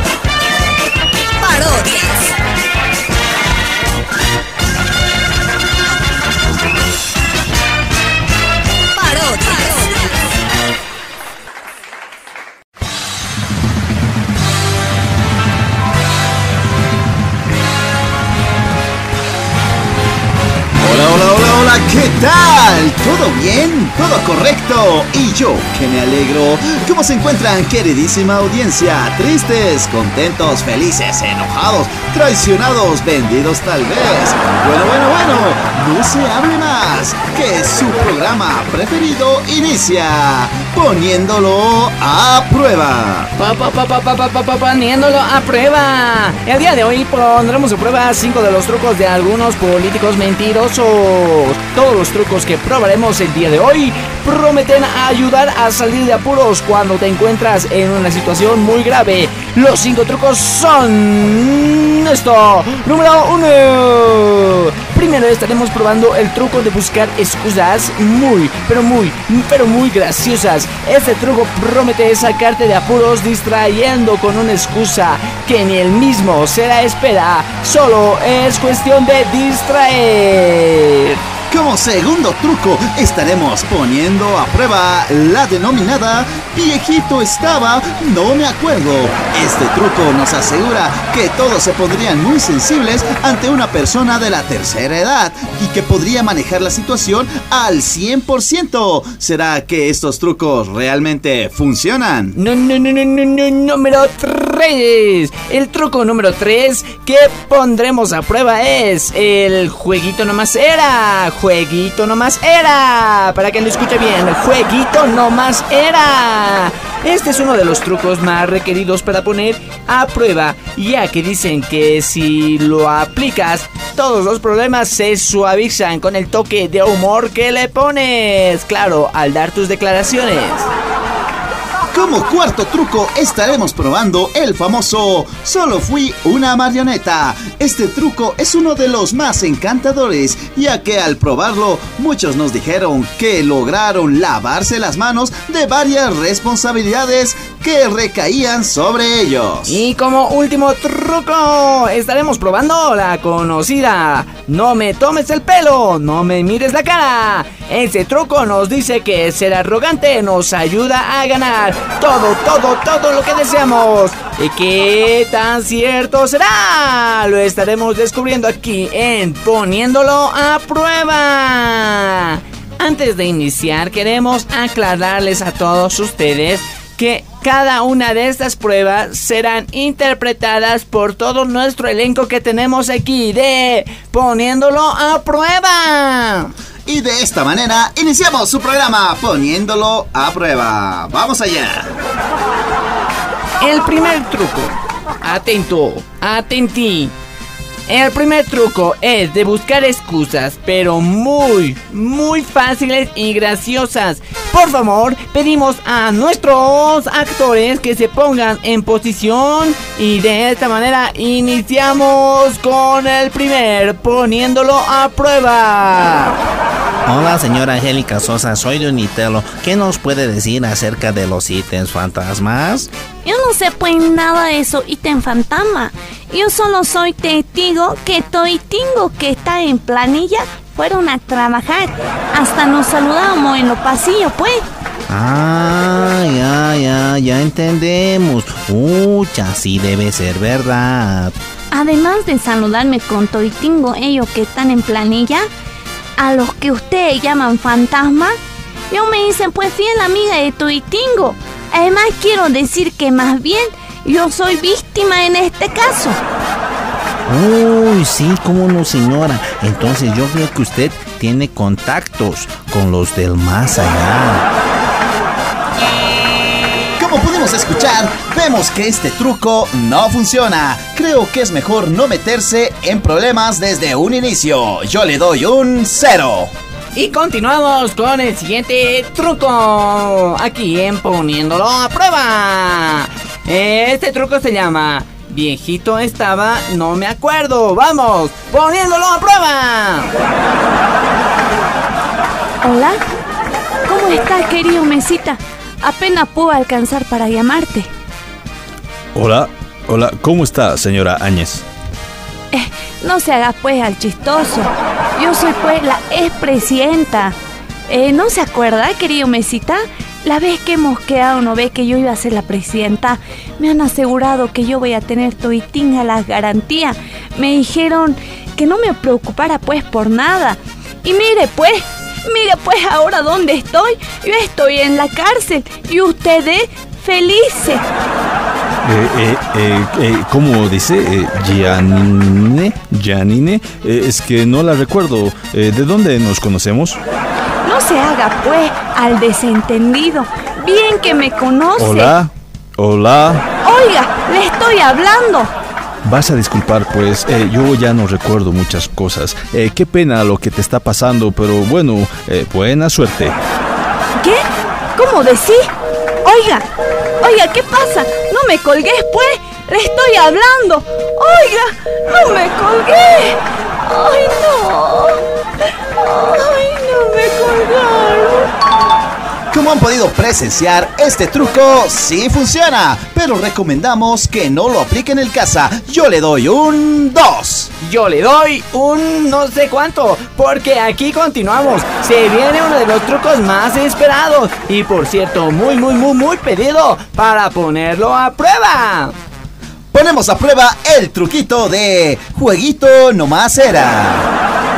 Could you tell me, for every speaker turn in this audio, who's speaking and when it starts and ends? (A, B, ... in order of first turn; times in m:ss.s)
0:01.5-0:02.2 A
0:09.0-0:09.7 B
0:20.8-0:43.3 C
0:43.4-1:21.2 A
1:21.5-1:42.3 C
1:42.3-2:10.7 A
2:11.9-2:29.8 C
2:29.7-3:06.5 A
3:06.8-3:11.9 C
3:13.6-3:17.1 A
3:17.9-3:36.3 A
3:37.0-3:42.9 D
3:43.2-3:54.6 B
3:55.1-4:01.3 D
4:01.7-4:05.4 B
4:06.2-4:08.3 B
4:08.9-4:16.2 B
4:17.3-4:24.5 D
4:27.0-4:36.5 C
4:36.9-4:50.1 A
4:52.6-4:53.0 B
4:53.8-4:57.9 B
4:59.1-5:01.6 E
5:02.5-5:07.3 B
5:07.9-5:27.8 B
5:28.8-5:37.0 E
5:37.6-5:42.2 B
5:41.8-5:43.4 E
5:43.6-5:45.5 B
5:46.0-5:53.4 E
5:55.0-5:55.7 B
5:56.2-5:56.6 B
5:57.2-6:05.2 B
6:06.0-6:08.5 B
6:09.5-6:17.7 C
6:17.8-6:29.1 A
6:29.9-6:34.2 C